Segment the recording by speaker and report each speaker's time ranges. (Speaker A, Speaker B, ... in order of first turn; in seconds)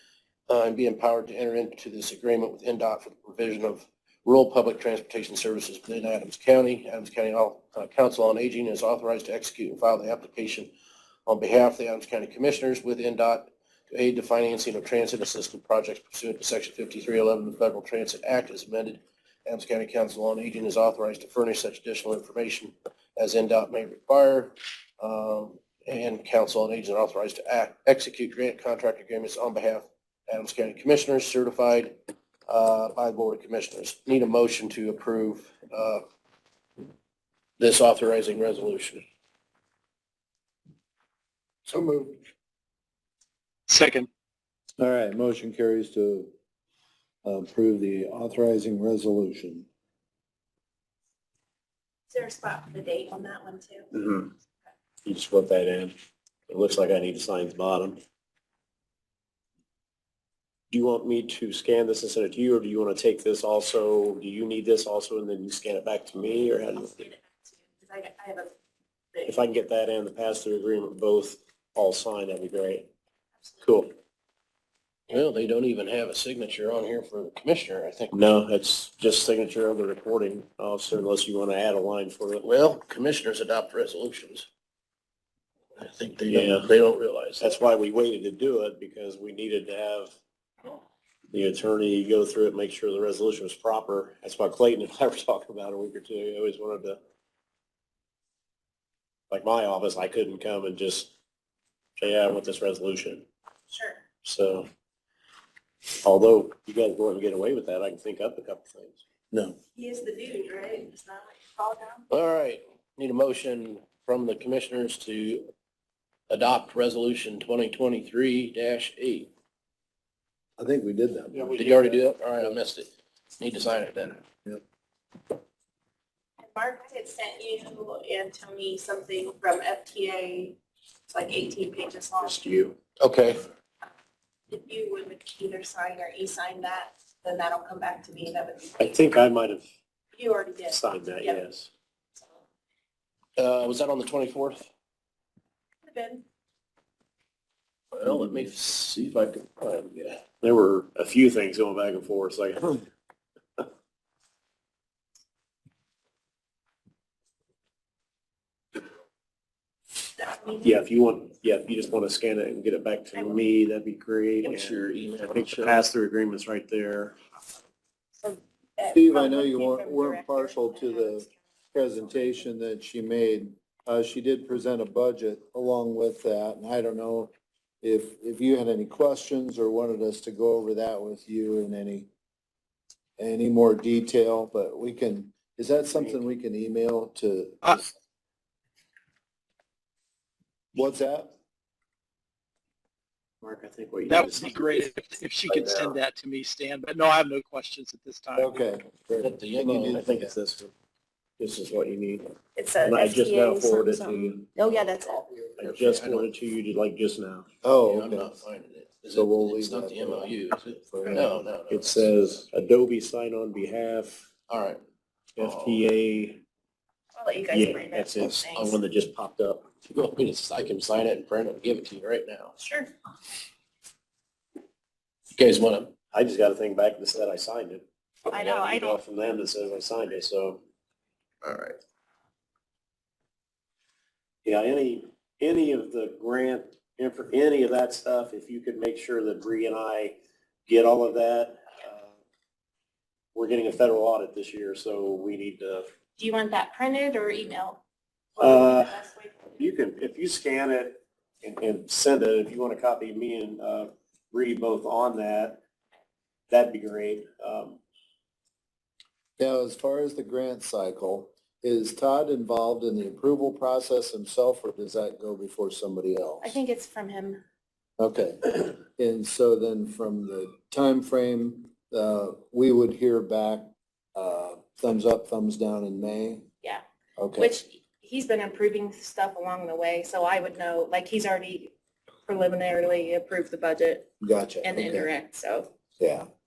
Speaker A: 0.5-10.7, 11.3-36.0, 37.6-39.0, 75.1-78.2, 82.4-84.5, 85.8-87.5, 112.1-115.5, 116.3-119.3, 121.5-124.2, 132.3-133.5, 143.4-144.7, 147.9-150.2, 164.4-165.9, 199.2-200.1, 204.7-206.3, 207.8-212.4, 214.5-214.8, 215.4-215.8, 219.9-222.6, 225.3-225.9, 231.4-231.8
Speaker B: 41.7-42.2, 44.8-46.3, 47.2-49.7, 120.6-121.7, 168.9-182.1, 183.2-187.9, 190.8-191.3, 198.4-200.3, 207.6-208.4, 209.1-211.4, 259.4-266.6, 268.0-276.5, 277.2-277.6, 284.2-285.1, 286.0-286.3
Speaker C: 43.7-44.1, 194.1-198.6
Speaker D: 52.1-53.9, 66.8-68.5, 69.1-69.4, 103.7-104.1, 109.8-112.0, 126.4-132.7, 134.5-139.0, 140.1-141.4, 145.8-146.2, 160.2-160.8, 168.2-171.4, 172.0-172.4, 202.6-205.3, 217.2-218.8, 222.6-222.9, 228.3-229.0, 246.2-247.8, 248.4-249.7, 266.4-267.4, 277.4-281.7, 282.3-284.1, 284.6-285.7
Speaker E: 53.9-54.3, 55.0-55.9, 56.5-58.0, 60.7-67.0, 69.3-72.9, 73.6-73.9, 78.1-82.5, 86.3-86.7, 87.4-90.1, 91.3-97.0, 99.3-101.1, 102.0-103.3, 104.2-104.7, 106.0-109.0, 121.3-122.0, 138.8-139.7, 140.7-141.7, 150.4-152.9, 160.6-164.8, 165.3-167.2, 185.9-186.2, 193.4-194.9, 195.5-196.0, 199.7-200.7, 201.4-204.6, 205.6-207.5, 211.1-214.3, 215.4-216.4, 217.5-219.7, 226.1-230.6, 234.4-242.1, 243.3-245.9, 248.4-249.1, 249.6-255.6, 256.5-257.8